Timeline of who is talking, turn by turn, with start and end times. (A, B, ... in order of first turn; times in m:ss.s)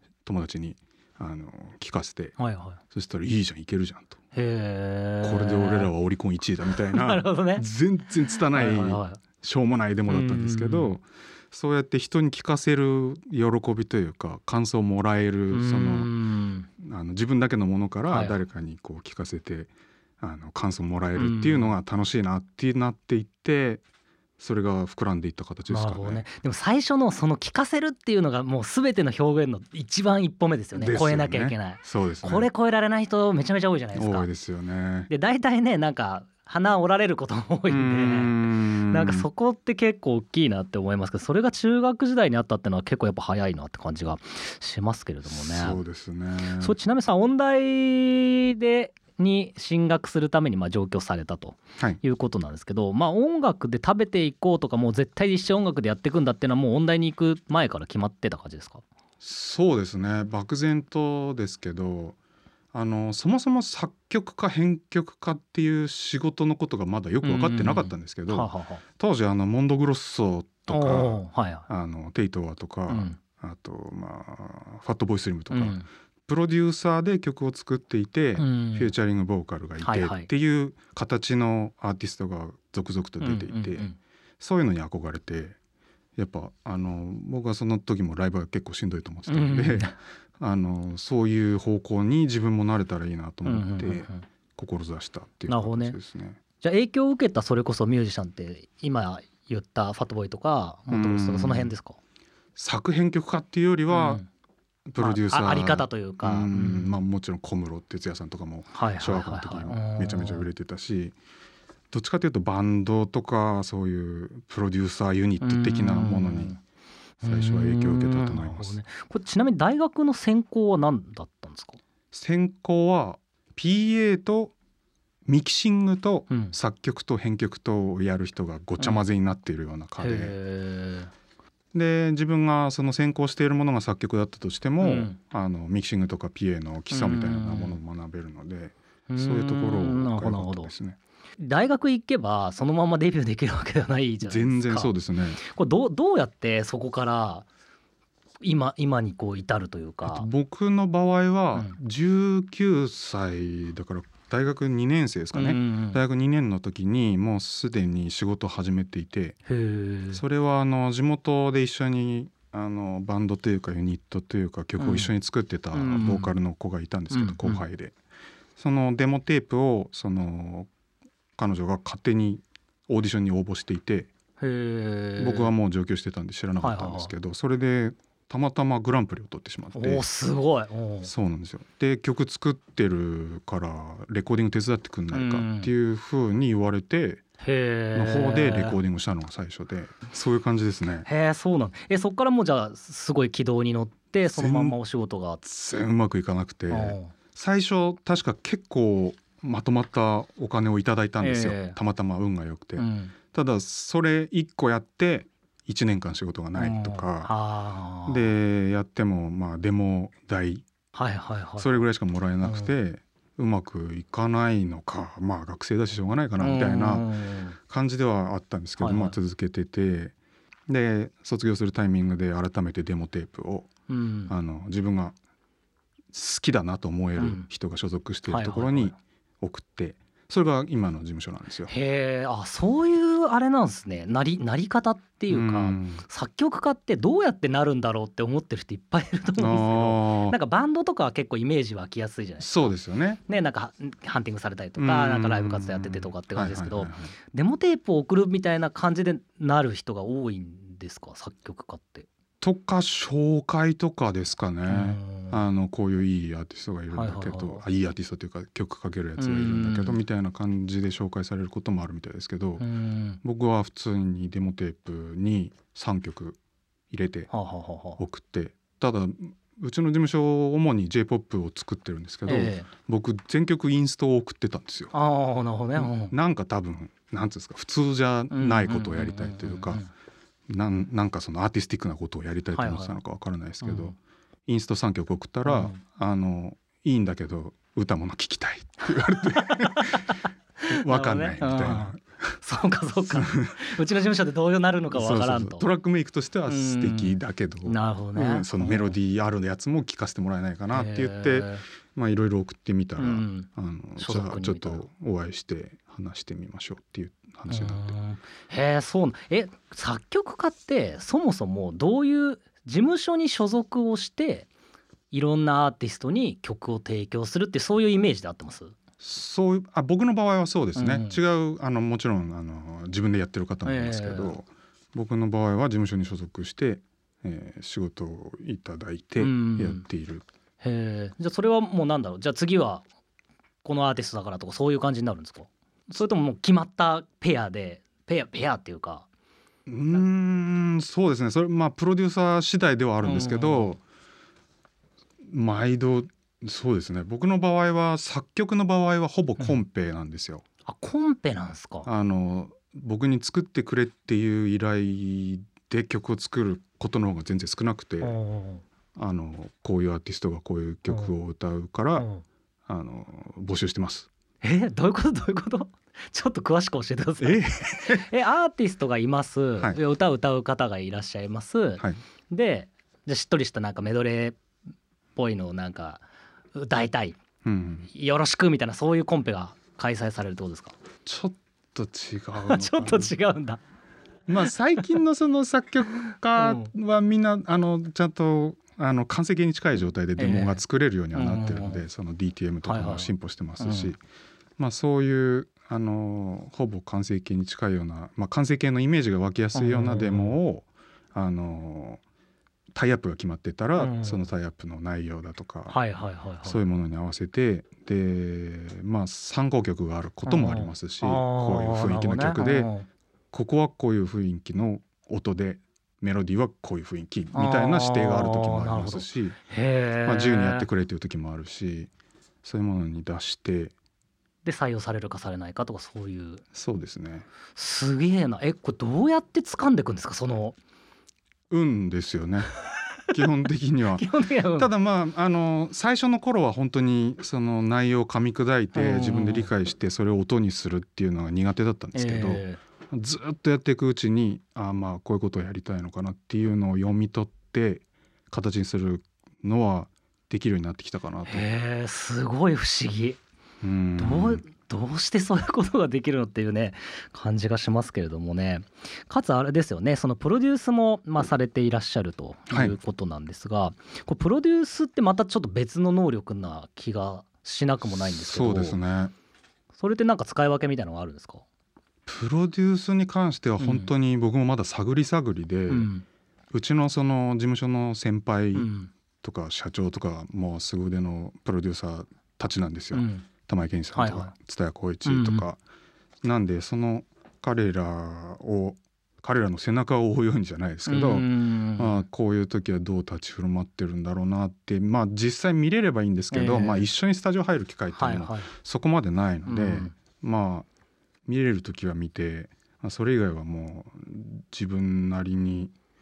0:00.2-0:02.4 A
0:02.4-0:02.8 B
0:02.9-0:04.2 A
0:04.3-0:05.9 B
0:05.2-0:16.1 A
0:06.8-0:07.6 B
0:08.5-0:09.2 B
0:10.1-0:10.9 B
0:15.5-0:16.7 B
0:16.8-0:23.8 A
0:18.1-0:18.4 B
0:21.2-0:21.7 B
0:24.4-0:26.2 A
0:25.7-0:34.3 B
0:30.8-0:32.5 A
0:33.9-0:35.1 A
0:35.1-0:45.8 B
0:37.7-0:39.3 A
0:45.3-0:46.8 A
0:46.6-0:58.8 B
0:59.2-1:02.2 A
1:02.7-1:23.9 A
1:07.2-1:08.8 B
1:10.7-1:11.7 B
1:12.9-1:13.2 B
1:15.5-1:15.8 B
1:18.4-1:18.9 B
1:19.8-1:20.3 B
1:23.2-1:24.0 B
1:24.4-1:25.6 A
1:26.2-1:36.4 A
1:29.3-1:30.0 B
1:33.4-1:34.2 B
1:35.5-1:36.0 B
1:36.6-1:42.0 B
1:40.9-1:41.7 A
1:42.6-1:44.2 A
1:43.9-1:44.3 B
1:44.9-1:51.2 A
1:45.0-1:47.0 B
1:48.7-1:50.5 B
1:51.9-1:56.5 A
1:55.4-1:56.6 B
1:57.2-2:01.8 B
1:57.2-1:58.8 A
2:02.1-2:04.5 A
2:05.3-2:10.4 A
2:06.3-2:06.5 B
2:10.0-2:11.1 B
2:11.7-2:21.0 A
2:14.8-2:15.2 B
2:16.9-2:17.8 B
2:19.1-2:20.7 B
2:21.4-2:27.5 B
2:24.2-2:25.4 A
2:28.4-2:30.3 B
2:30.0-2:39.4 A
2:35.3-2:36.0 B
2:39.5-2:40.2 B
2:40.1-2:48.0 A
2:44.8-2:45.1 B
2:45.7-2:46.3 B
2:47.1-2:47.6 B
2:48.6-2:50.7 A
2:51.4-2:54.1 A
2:54.4-2:55.5 B
2:55.2-3:00.0 A
2:56.6-2:57.1 B
2:59.8-3:01.1 B
3:01.0-3:07.2 A
3:05.1-3:05.7 B
3:07.4-3:08.8 B
3:07.9-3:11.1 A
3:11.1-3:15.4 B
3:14.3-3:14.8 A
3:15.4-3:27.3 A
3:16.7-3:17.1 B
3:21.2-3:21.8 B
3:22.8-3:23.2 B
3:26.6-3:28.3 B
3:28.1-3:30.7 A
3:30.9-3:31.8 B
3:31.6-3:37.1 A
3:32.4-3:32.7 B
3:36.4-3:37.6 B
3:37.6-3:40.1 A
3:38.8-3:39.2 B
3:40.7-3:43.7 A
3:43.9-3:44.3 B
3:44.3-3:45.2 A
3:46.1-3:51.7 A
3:47.2-3:47.5 B
3:48.3-3:49.0 B
3:51.7-4:02.8 B
3:55.3-3:56.0 A
3:59.4-4:00.4 A
4:02.4-4:03.2 A
4:03.3-4:12.1 B
4:04.8-4:07.1 A
4:12.4-4:22.6 A
4:14.7-4:15.4 B
4:16.9-4:17.6 B
4:19.2-4:20.0 B
4:22.6-4:23.2 B
4:23.2-4:26.4 A
4:26.9-4:27.3 A
4:27.3-4:28.0 B
4:28.0-4:34.9 A
4:32.2-4:32.7 B
4:34.9-4:36.1 B
4:35.8-4:39.8 A
4:38.3-4:39.9 B
4:40.5-4:44.0 A
4:42.5-4:43.0 B
4:43.6-4:44.0 B
4:44.5-4:50.1 A
4:45.4-4:45.8 B
4:49.4-4:55.6 B
4:50.7-4:52.0 A
4:53.1-4:53.6 A
4:54.9-5:07.9 A
4:56.5-4:59.0 B
5:00.7-5:01.6 B
5:03.0-5:04.9 B
5:07.5-5:14.5 B
5:15.1-5:18.8 B
5:19.0-5:30.2 A
5:20.8-5:21.2 B
5:23.6-5:24.4 B
5:29.2-5:29.8 B
5:30.6-5:32.8 B
5:33.6-5:39.1 B
5:39.7-5:43.8 A
5:43.0-5:43.7 B
5:45.2-5:50.4 A
5:50.7-5:51.9 B
5:51.9-5:58.2 A
5:58.0-5:58.6 B
5:59.0-6:02.1 A
6:00.9-6:01.1 B
6:02.0-6:02.2 B
6:02.7-6:04.1 A
6:04.4-6:14.4 B
6:07.2-6:08.1 A
6:15.2-6:16.0 B
6:16.6-6:17.2 B
6:17.4-6:17.9 A
6:17.9-6:20.8 B
6:21.0-6:23.2 A
6:22.4-6:23.6 B
6:24.3-6:34.0 A
6:26.4-6:26.7 B
6:30.2-6:30.6 B
6:31.1-6:31.8 B
6:32.6-6:33.9 B
6:34.6-6:42.0 A
6:39.6-6:40.4 B
6:42.7-6:45.8 A
6:43.8-6:44.3 B
6:45.7-6:46.6 B
6:46.4-6:52.7 A
6:50.2-6:52.9 B
6:53.3-6:59.4 A
6:57.3-7:00.7 B
7:00.0-7:01.9 A
7:02.4-7:03.7 A
7:04.4-7:06.4 B
7:06.5-7:07.3 A
7:07.6-7:10.6 B
7:11.5-7:12.5 A
7:13.1-7:14.1 A
7:14.0-7:14.7 B
7:14.6-7:31.5 A
7:18.7-7:19.5 B
7:22.0-7:22.6 B
7:31.2-7:33.2 B
7:33.6-7:34.4 A
7:34.0-7:48.8 B
7:42.5-7:42.8 A
7:47.9-7:49.1 A
7:49.7-7:51.4 B
7:52.1-7:55.9 A
7:53.6-7:53.9 B
7:55.7-7:56.0 B
7:56.5-7:58.7 A
7:58.5-7:58.9 B
7:59.2-8:05.6 A
8:02.9-8:03.3 B
8:04.0-8:04.3 B
8:05.0-8:05.4 B
8:06.2-8:20.7 A
8:10.9-8:12.0 B
8:16.3-8:16.9 B
8:17.9-8:18.5 B
8:19.5-8:20.0 B
8:21.2-8:25.7 A